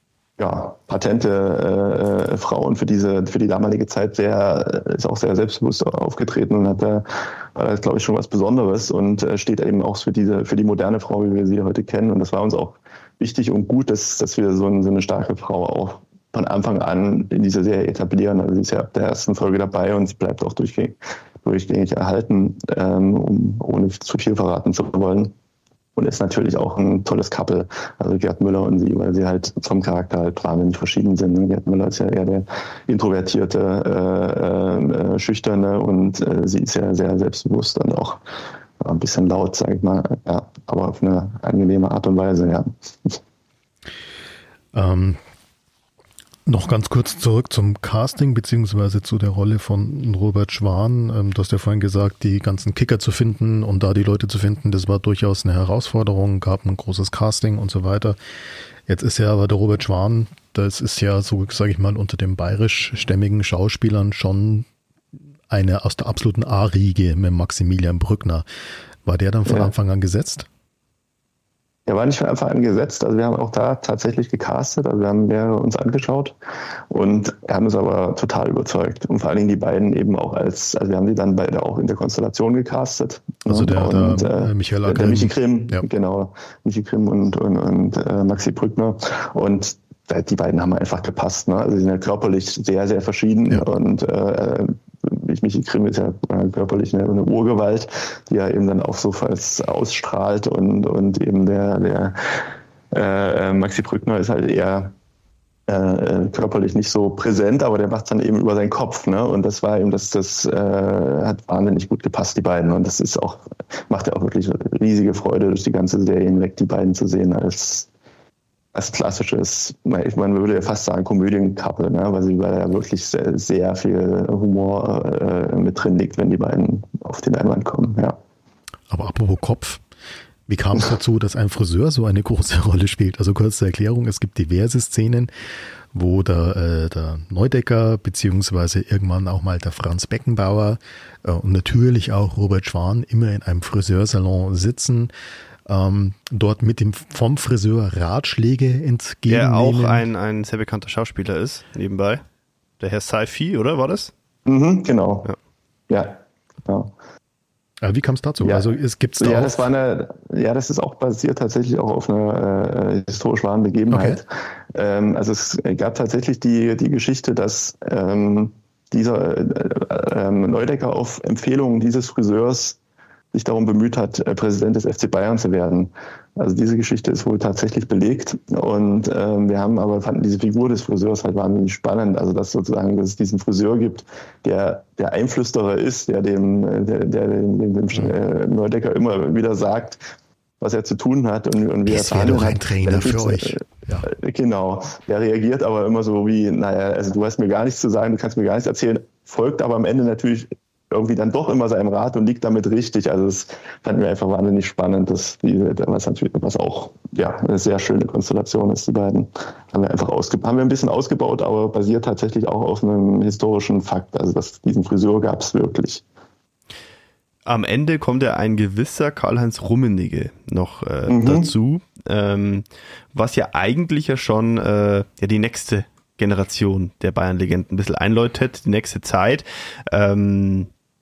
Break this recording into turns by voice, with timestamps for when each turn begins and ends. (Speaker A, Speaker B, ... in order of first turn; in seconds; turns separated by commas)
Speaker A: 0.4-25.3, Speaker A: 26.0-38.2, Speaker A: 38.8-43.2, Speaker B: 44.7-45.2, Speaker B: 46.5-58.2, Speaker B: 58.9-64.7, Speaker B: 65.5-68.5, Speaker B: 69.0-70.5, Speaker A: 71.9-76.3, Speaker A: 76.9-102.2, Speaker B: 83.5-85.8, Speaker A: 102.9-104.9, Speaker A: 105.7-117.9, Speaker A: 118.7-128.2, Speaker B: 128.9-129.8, Speaker B: 130.5-135.3, Speaker B: 135.9-145.1, Speaker B: 145.7-150.1, Speaker C: 149.3-152.2, Speaker C: 152.8-154.1, Speaker A: 154.5-155.3, Speaker A: 155.9-156.9, Speaker B: 157.8-159.7, Speaker A: 158.4-172.8, Speaker B: 163.9-164.2, Speaker A: 173.3-190.0, Speaker A: 190.6-216.0, Speaker B: 191.9-194.1, Speaker C: 217.5-230.7, Speaker A: 221.1-221.5